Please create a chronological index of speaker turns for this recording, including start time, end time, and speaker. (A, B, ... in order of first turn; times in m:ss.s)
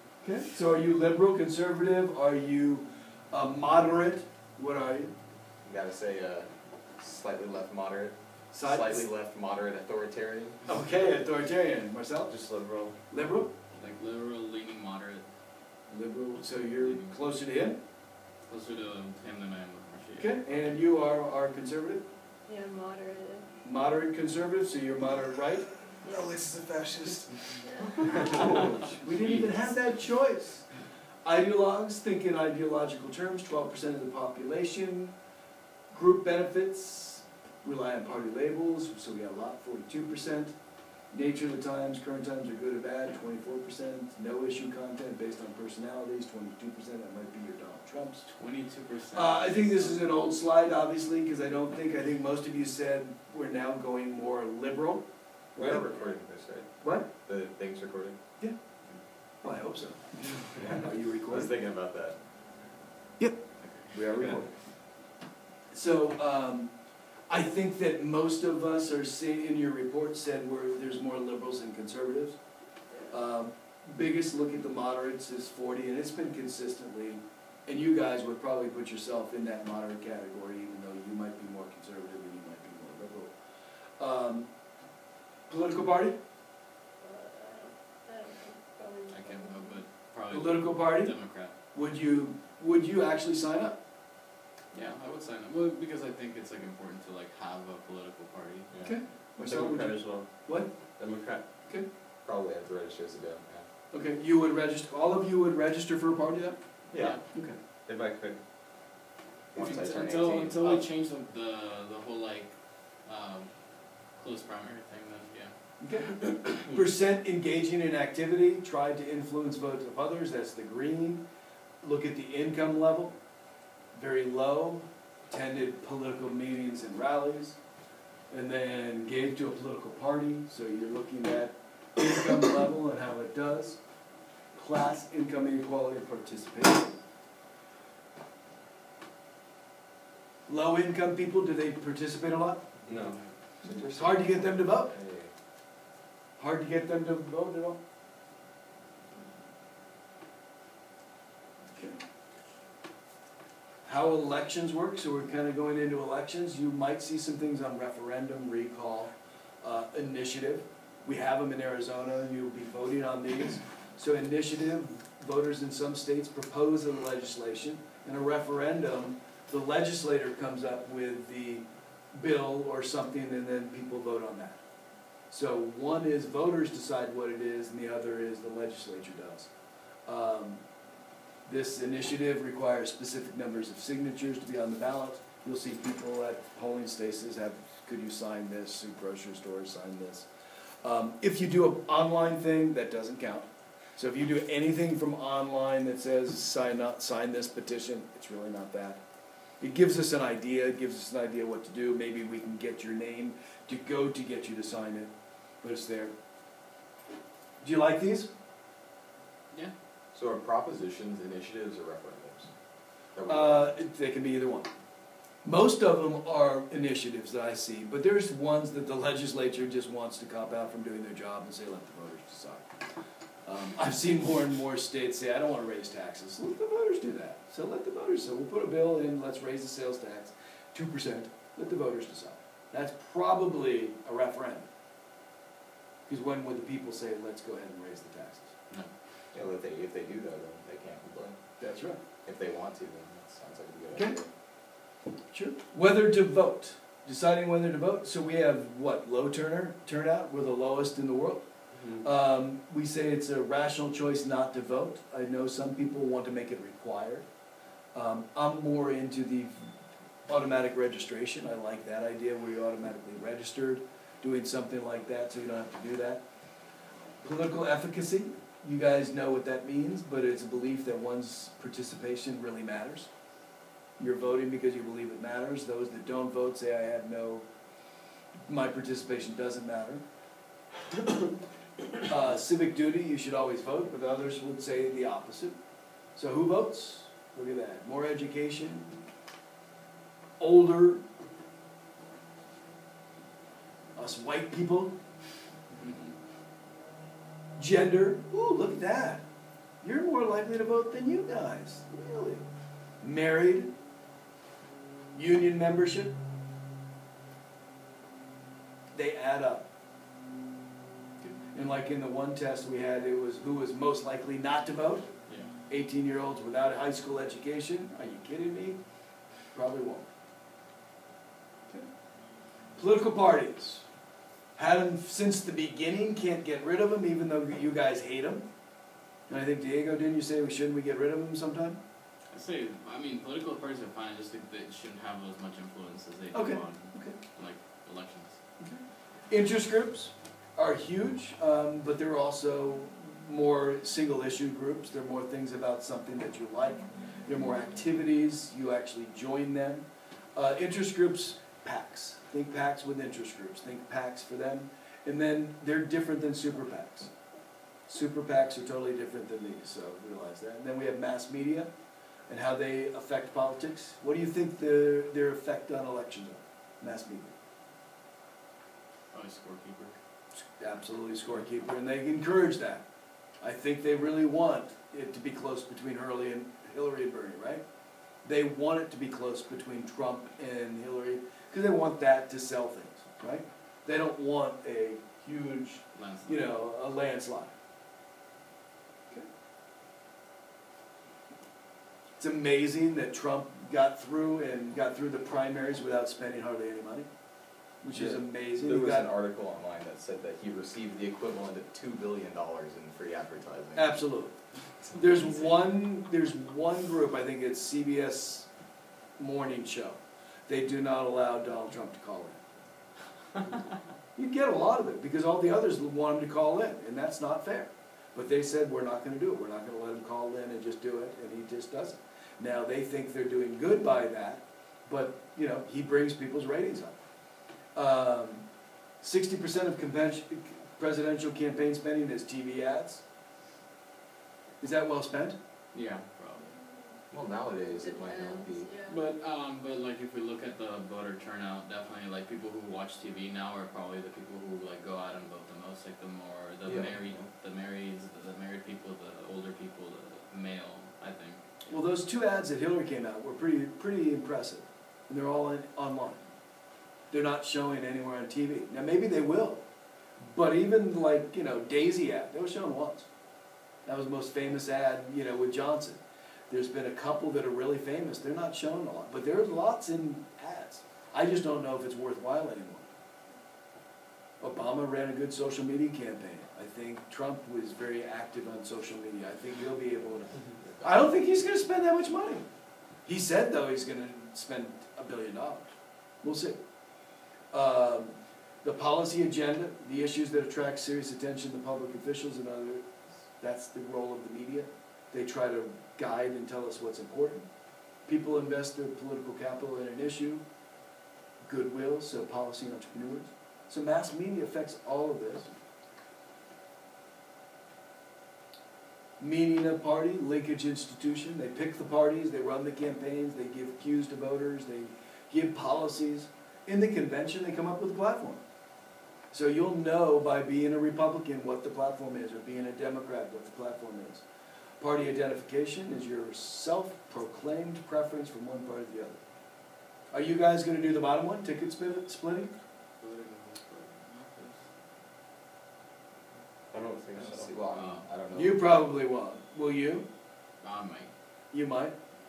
0:00.2-0:05.1 A
0:05.6-0:11.0 B
0:08.5-0:09.1 A
0:10.7-0:12.3 A
0:12.3-0:13.0 B
0:13.1-0:13.5 A
0:13.7-0:15.2 C
0:15.9-0:17.8 A
0:16.8-0:17.2 C
0:18.5-0:20.7 C
0:20.2-0:22.0 A
0:22.4-0:23.5 D
0:23.6-0:30.7 A
0:27.6-0:28.7 D
0:29.1-0:29.6 C
0:31.2-0:35.1 A
0:35.9-0:40.5 A
0:41.1-0:48.3 A
0:48.3-0:50.1 C
0:49.1-0:55.8 A
0:55.6-0:58.2 B
0:56.8-0:57.1 A
0:59.4-1:01.5 A
1:00.5-1:02.2 B
1:03.2-1:04.5 A
1:03.6-1:04.3 C
1:05.7-1:06.7 A
1:07.3-1:12.4 A
1:13.1-1:23.3 A
1:24.0-1:24.5 A
1:25.5-1:26.2 A
1:27.0-1:29.8 D
1:29.1-1:31.5 C
1:30.3-1:33.8 A
1:34.7-1:38.7 C
1:38.7-1:39.0 B
1:38.8-1:40.7 A
1:39.4-1:41.4 E
1:42.2-1:43.7 B
1:43.9-1:46.6 A
1:46.9-1:47.2 B
1:47.3-1:47.6 A
1:47.8-1:48.4 E
1:49.5-1:50.8 B
1:49.6-1:50.8 A
1:49.6-1:55.5 C
1:55.8-2:01.2 A
2:01.8-2:03.2 A
2:03.9-2:07.6 A
2:08.3-2:13.8 A
2:14.5-2:17.0 A
2:20.5-2:22.6 A
2:22.9-2:23.2 E
2:23.6-2:25.3 B
2:23.9-2:24.9 A
2:26.4-2:27.8 A
2:33.8-2:54.6 A
2:55.3-2:59.5 A
3:00.1-3:00.6 A
3:01.4-3:10.3 A
3:10.8-3:19.0 A
3:19.6-3:26.1 A
3:27.6-3:28.3 A
3:30.1-3:32.5 B
3:33.1-3:33.7 B
3:33.2-3:34.7 A
3:35.4-3:42.7 A
3:43.4-3:54.7 A
3:56.1-3:58.5 A
3:59.3-4:01.4 B
4:01.6-4:02.0 A
4:02.2-4:04.3 B
4:03.9-4:04.2 A
4:05.3-4:11.4 A
4:11.7-4:12.0 E
4:12.0-4:17.2 A
4:17.9-4:19.7 A
4:20.3-4:26.2 A
4:27.2-4:33.1 A
4:34.0-4:37.4 A
4:38.5-4:40.0 A
4:42.0-4:45.6 A
4:46.2-4:48.9 A
4:50.4-4:51.0 A
4:54.0-4:54.9 A
4:55.7-4:56.1 C
4:57.6-4:59.2 A
4:59.8-5:02.4 A
5:03.0-5:03.7 A
5:05.1-5:06.2 A
5:08.9-5:09.7 A
5:11.2-5:15.1 A
5:15.3-5:15.5 C
5:15.7-5:18.8 A
5:19.5-5:20.1 A
5:22.8-5:23.8 A
5:24.6-5:28.5 A
5:29.3-5:31.8 A
5:32.3-5:38.4 C
5:36.3-5:37.2 A
5:38.6-5:57.1 A
5:57.9-6:01.7 A
6:02.3-6:07.3 A
6:09.1-6:10.0 C
6:10.6-6:12.8 A
6:13.4-6:17.6 A
6:18.2-6:27.5 A
6:25.9-6:26.6 C
6:32.2-6:37.1 A
6:37.8-6:39.1 A
6:38.5-6:43.9 B
6:43.7-6:44.4 A
6:44.8-6:45.4 B
6:44.9-6:48.5 A
6:49.2-6:52.4 A
6:54.2-7:07.0 A
7:07.7-7:08.5 A
7:09.0-7:13.0 A
7:14.6-7:15.4 A
7:15.7-7:16.4 C
7:16.4-7:17.0 D
7:17.1-7:18.7 B
7:17.7-7:19.0 D
7:18.9-7:31.5 C
7:26.6-7:27.2 B
7:31.7-7:36.2 A
7:37.1-7:39.6 A
7:40.2-7:43.1 A
7:43.8-7:52.9 A
7:54.4-8:02.5 A
8:00.4-8:01.1 B
8:03.0-8:05.7 A
8:06.2-8:06.6 A
8:07.5-8:12.8 A
8:13.4-8:17.5 A
8:18.0-8:20.4 A
8:21.4-8:25.5 A
8:29.2-8:38.4 A
8:39.3-8:44.2 A
8:44.8-8:49.2 A
8:50.1-8:52.5 A
8:53.0-8:54.6 C
8:56.7-8:57.6 E
8:57.1-8:58.8 B
8:57.7-8:58.1 C
8:58.3-9:00.1 A
9:00.6-9:01.1 C
9:01.5-9:02.0 A